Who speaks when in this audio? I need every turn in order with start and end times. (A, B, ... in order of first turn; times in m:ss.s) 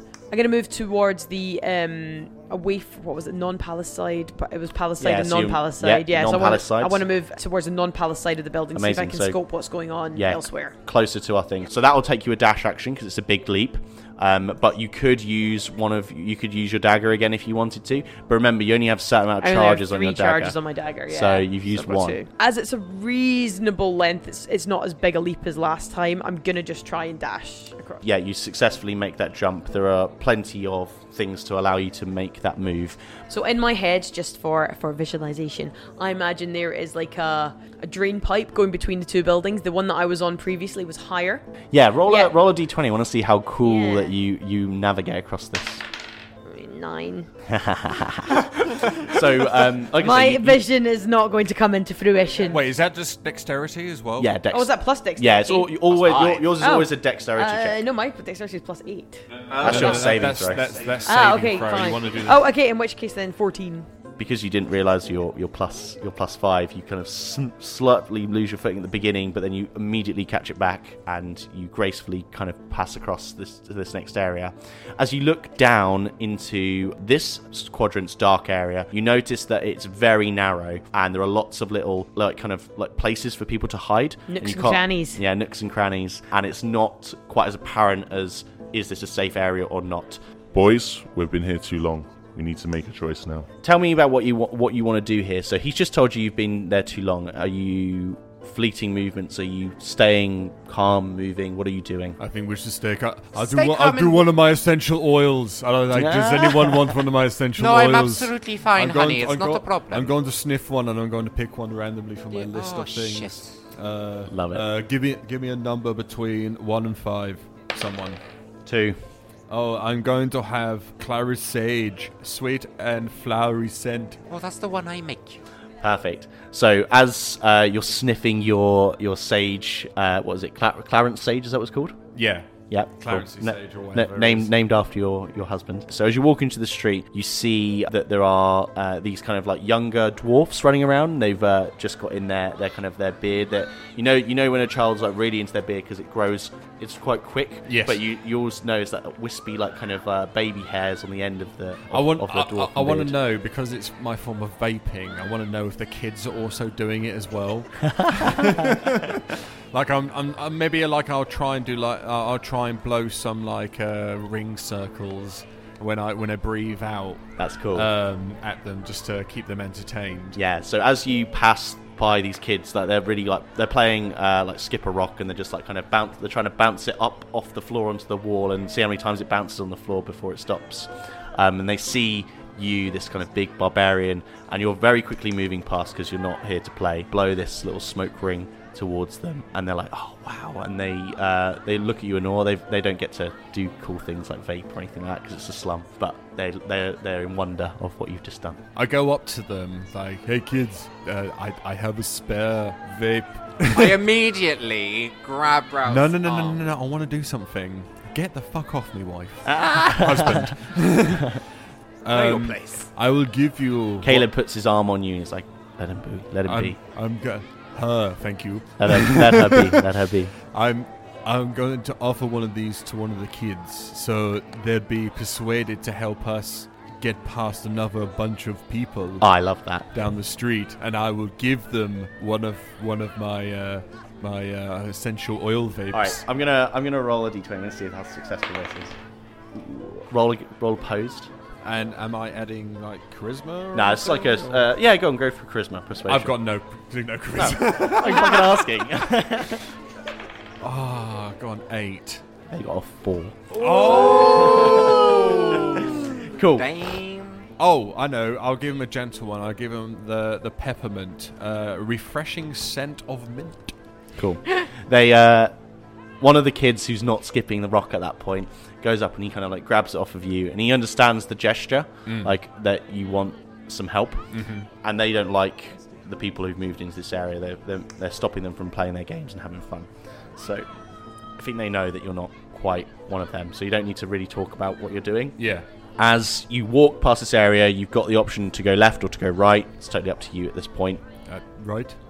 0:00.3-0:10.8 A
0:05.0-0:07.0 B
0:08.7-0:09.4 B
0:10.1-0:22.2 B
0:19.4-0:28.0 A
0:28.0-0:33.0 B
0:33.3-0:41.4 A
0:41.7-0:45.8 B
0:42.0-0:42.3 A
0:43.6-0:44.1 A
0:46.4-0:47.3 A
0:47.5-0:50.6 B
0:49.9-0:52.6 A
0:52.5-0:54.4 C
0:54.2-0:57.8 B
0:54.5-0:59.8 A
0:59.5-1:02.4 C
0:59.6-1:00.7 B
1:01.0-1:03.9 A
1:04.2-1:30.2 B
1:24.3-1:25.2 A
1:30.5-1:33.5 D
1:33.6-1:42.2 B
1:42.2-1:58.2 C
1:43.3-1:44.3 E
1:45.9-1:46.9 B
1:47.6-1:50.1 E
1:52.3-1:53.6 E
1:54.3-1:54.6 B
1:58.6-1:59.0 B
1:59.5-2:04.2 C
2:04.3-2:05.4 E
2:05.8-2:12.0 B
2:12.1-2:14.5 C
2:12.7-2:33.2 B
2:27.6-2:28.0 C
2:31.9-2:47.2 C
2:47.4-2:47.9 B
2:47.7-2:50.4 C
2:50.3-3:18.6 B
3:18.7-3:24.0 C
3:23.7-3:26.7 E
3:25.9-3:31.4 C
3:29.6-3:30.6 B
3:32.0-3:34.3 C
3:32.1-3:32.9 E
3:34.0-3:36.8 B
3:36.4-3:39.8 C
3:38.8-3:40.3 B
3:40.4-3:49.3 C
3:49.2-3:49.9 B
3:49.9-3:56.2 C
3:55.9-3:59.0 B
3:59.6-4:01.3 B
4:01.6-4:04.7 C
4:03.7-4:06.4 B
4:06.1-4:08.6 C
4:07.3-4:09.6 B
4:10.6-4:12.2 C
4:12.5-4:16.7 B
4:13.6-4:16.2 C
4:13.8-4:15.9 E
4:16.5-4:17.5 E
4:17.6-4:23.7 C
4:24.2-4:25.5 B
4:26.2-4:34.3 B
4:32.0-4:32.3 C
4:34.3-4:34.7 C
4:34.8-4:40.7 B
4:41.4-4:45.4 B
4:45.4-4:45.7 C
4:46.0-4:51.0 B
4:51.3-4:52.0 C